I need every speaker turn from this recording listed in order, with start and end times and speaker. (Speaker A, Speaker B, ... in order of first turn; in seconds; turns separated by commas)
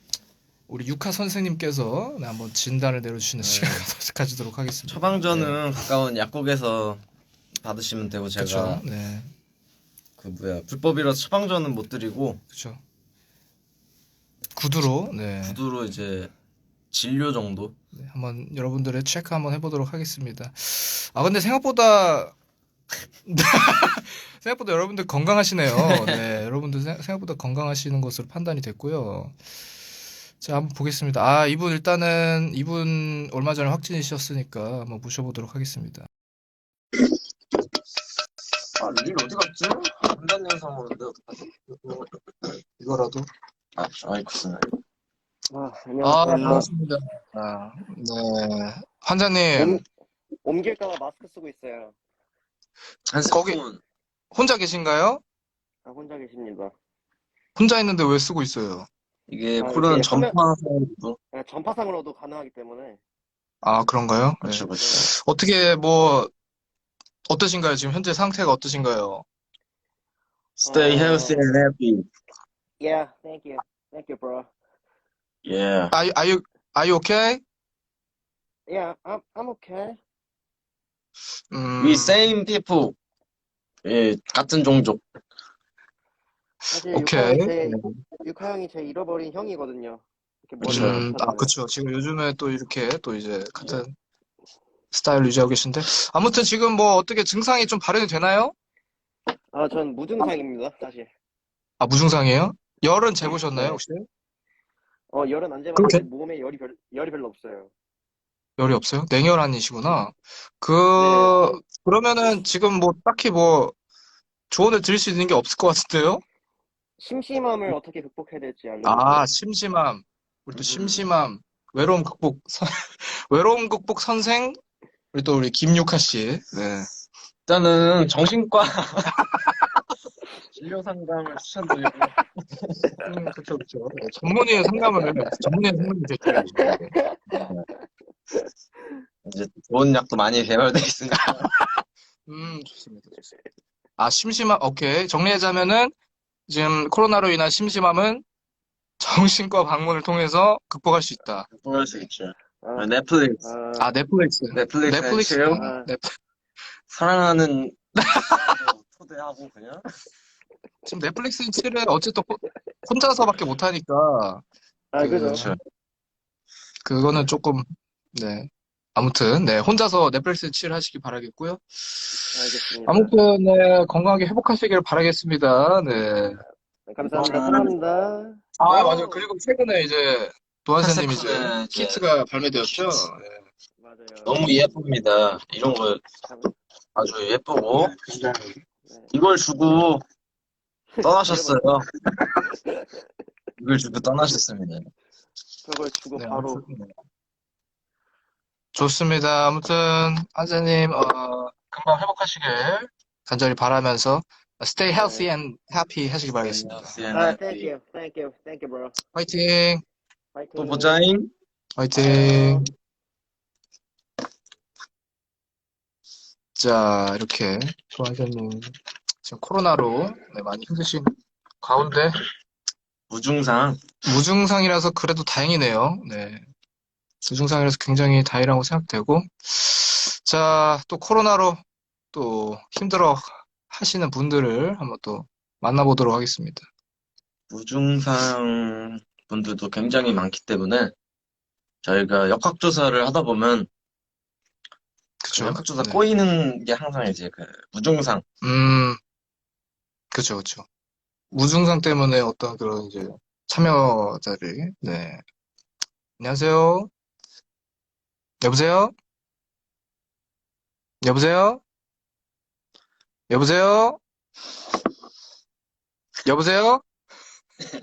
Speaker A: 0.7-5.6, Speaker B: 3.4-3.9, Speaker B: 4.9-7.0, Speaker B: 7.6-8.8, Speaker A: 8.4-9.3, Speaker B: 10.2-12.4, Speaker A: 12.5-12.8, Speaker A: 14.6-15.6, Speaker B: 15.4-16.3, Speaker B: 16.9-17.8, Speaker A: 17.9-22.3, Speaker A: 23.3-29.4, Speaker B: 25.8-26.1, Speaker A: 30.4-36.1, Speaker B: 38.8-42.0, Speaker A: 42.8-43.3, Speaker B: 43.8-44.7, Speaker C: 45.5-46.7, Speaker A: 46.0-49.8, Speaker C: 49.6-49.9, Speaker C: 50.5-52.0, Speaker B: 53.1-53.8, Speaker A: 53.2-53.6, Speaker A: 54.3-55.2, Speaker C: 55.9-56.7, Speaker A: 57.6-58.9, Speaker B: 59.3-61.2, Speaker C: 59.6-60.4, Speaker C: 61.3-63.0, Speaker A: 63.6-66.3, Speaker B: 64.4-65.1, Speaker C: 64.8-65.0, Speaker A: 67.3-69.2, Speaker B: 70.6-72.1, Speaker C: 70.7-71.4, Speaker C: 72.8-74.5, Speaker B: 75.5-75.9, Speaker A: 75.9-77.4, Speaker C: 78.7-80.0, Speaker A: 81.5-82.3, Speaker B: 81.8-83.0, Speaker B: 83.8-85.0, Speaker A: 86.7-88.0, Speaker C: 86.7-91.5, Speaker A: 90.6-93.9, Speaker B: 90.7-91.0, Speaker A: 94.9-98.5, Speaker C: 99.5-101.1, Speaker A: 101.8-104.1, Speaker C: 103.5-103.8, Speaker C: 105.1-107.7, Speaker A: 105.8-106.0, Speaker A: 108.6-113.8, Speaker C: 111.0-111.5, Speaker A: 114.5-116.2, Speaker C: 117.0-119.2, Speaker A: 118.8-124.6, Speaker B: 120.5-121.1, Speaker A: 125.1-126.9, Speaker B: 127.5-129.2, Speaker B: 130.5-132.9, Speaker A: 133.0-136.9, Speaker C: 136.7-137.2, Speaker B: 137.3-137.6, Speaker B: 139.2-141.5, Speaker A: 141.6-143.3, Speaker A: 144.0-145.9, Speaker A: 146.5-148.2, Speaker A: 149.0-151.5, Speaker B: 151.5-153.4, Speaker C: 152.6-152.9, Speaker C: 153.4-153.9, Speaker A: 153.8-156.2, Speaker B: 154.5-155.7, Speaker C: 155.5-155.9, Speaker B: 156.9-159.8, Speaker A: 158.0-158.6, Speaker A: 160.9-164.4, Speaker C: 164.9-165.4, Speaker A: 165.0-165.6, Speaker B: 165.3-165.6, Speaker A: 166.8-176.4, Speaker C: 172.3-173.1, Speaker C: 176.9-179.3, Speaker A: 177.2-177.7, Speaker B: 177.2-177.7, Speaker A: 178.6-183.2, Speaker B: 180.8-182.0, Speaker B: 182.6-183.1, Speaker C: 183.8-184.4, Speaker B: 184.2-186.0, Speaker C: 186.3-186.5, Speaker B: 187.0-187.9, Speaker A: 187.9-188.6, Speaker B: 189.1-190.0, Speaker C: 190.9-191.6, Speaker B: 191.0-191.9, Speaker C: 192.4-193.0, Speaker B: 193.6-194.9, Speaker C: 195.7-196.6, Speaker A: 196.2-196.9, Speaker A: 198.7-207.0, Speaker C: 205.0-205.3, Speaker B: 206.4-207.7, Speaker C: 207.1-209.0, Speaker A: 209.1-209.8, Speaker C: 210.3-211.1, Speaker B: 210.6-211.3, Speaker A: 211.8-212.7, Speaker C: 212.0-212.6, Speaker A: 216.6-222.2, Speaker B: 223.1-223.8, Speaker A: 224.0-226.5, Speaker A: 227.2-231.6, Speaker A: 232.1-236.7, Speaker B: 237.5-240.9, Speaker B: 241.8-243.7, Speaker A: 245.2-246.0, Speaker B: 245.3-248.2, Speaker A: 248.4-249.0, Speaker A: 250.1-250.7, Speaker A: 251.3-255.2, Speaker A: 256.2-256.9, Speaker A: 258.4-258.9, Speaker A: 261.0-261.6, Speaker A: 263.3-264.0, Speaker A: 266.3-266.8